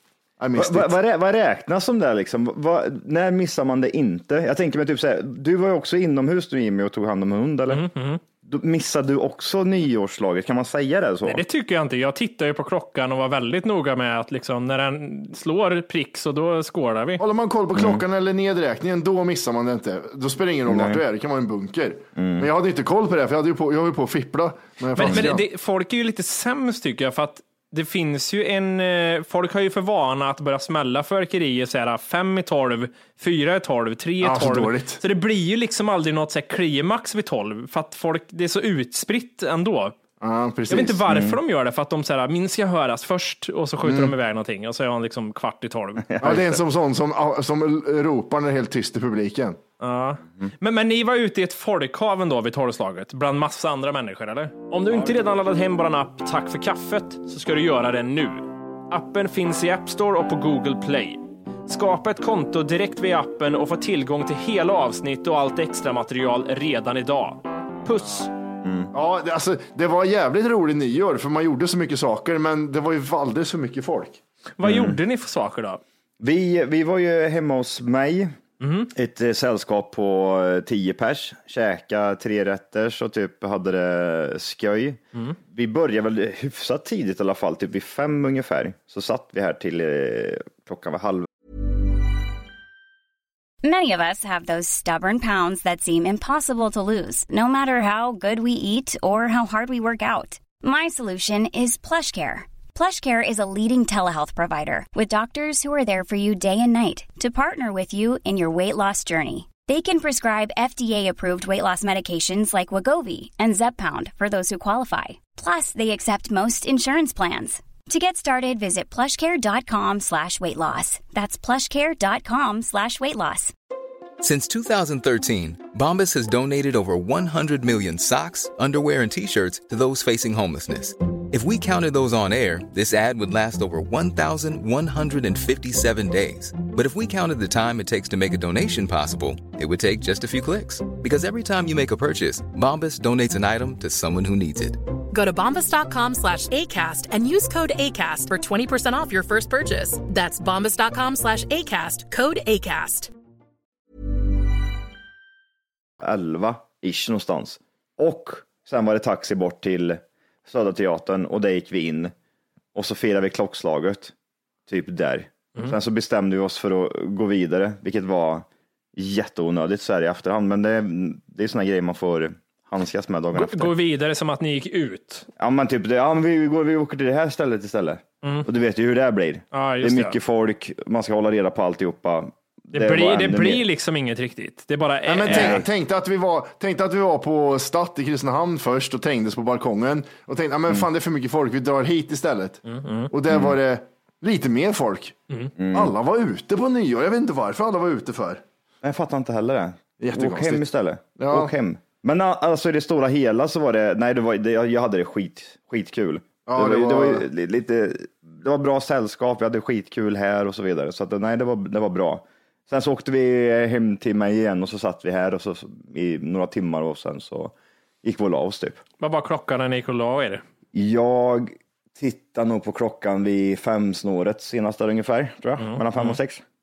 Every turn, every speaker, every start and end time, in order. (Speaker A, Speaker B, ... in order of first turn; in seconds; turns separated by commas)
Speaker A: 0.4-0.9, Speaker B: 0.5-7.9, Speaker C: 7.7-8.2, Speaker B: 8.4-11.4, Speaker C: 11.2-17.2, Speaker A: 17.2-25.4, Speaker B: 17.7-18.0, Speaker B: 20.7-21.0, Speaker B: 22.1-22.5, Speaker C: 24.9-39.9, Speaker B: 25.0-25.3, Speaker A: 34.2-35.0, Speaker A: 40.2-41.0, Speaker C: 40.7-46.0, Speaker B: 41.1-41.4, Speaker A: 43.8-44.1, Speaker B: 46.0-46.6, Speaker A: 46.2-49.6, Speaker C: 49.8-68.3, Speaker B: 68.6-68.9, Speaker A: 68.9-74.2, Speaker C: 74.6-75.8, Speaker B: 74.6-75.0, Speaker B: 76.2-78.3, Speaker C: 78.6-78.9, Speaker B: 78.9-91.3, Speaker D: 93.6-123.5, Speaker E: 124.2-144.8, Speaker F: 145.1-153.1, Speaker B: 156.0-162.1, Speaker B: 162.7-164.1, Speaker B: 164.7-173.7, Speaker C: 173.3-175.2, Speaker B: 175.4-183.7, Speaker C: 179.5-180.2, Speaker C: 182.7-185.6, Speaker A: 185.1-195.2, Speaker B: 185.3-185.7, Speaker C: 192.7-193.1, Speaker B: 193.3-193.6, Speaker B: 195.6-195.9, Speaker A: 195.7-198.4, Speaker B: 198.8-218.8, Speaker A: 200.0-201.5, Speaker A: 206.5-207.2, Speaker C: 219.0-220.4, Speaker B: 220.7-226.4, Speaker C: 225.6-226.2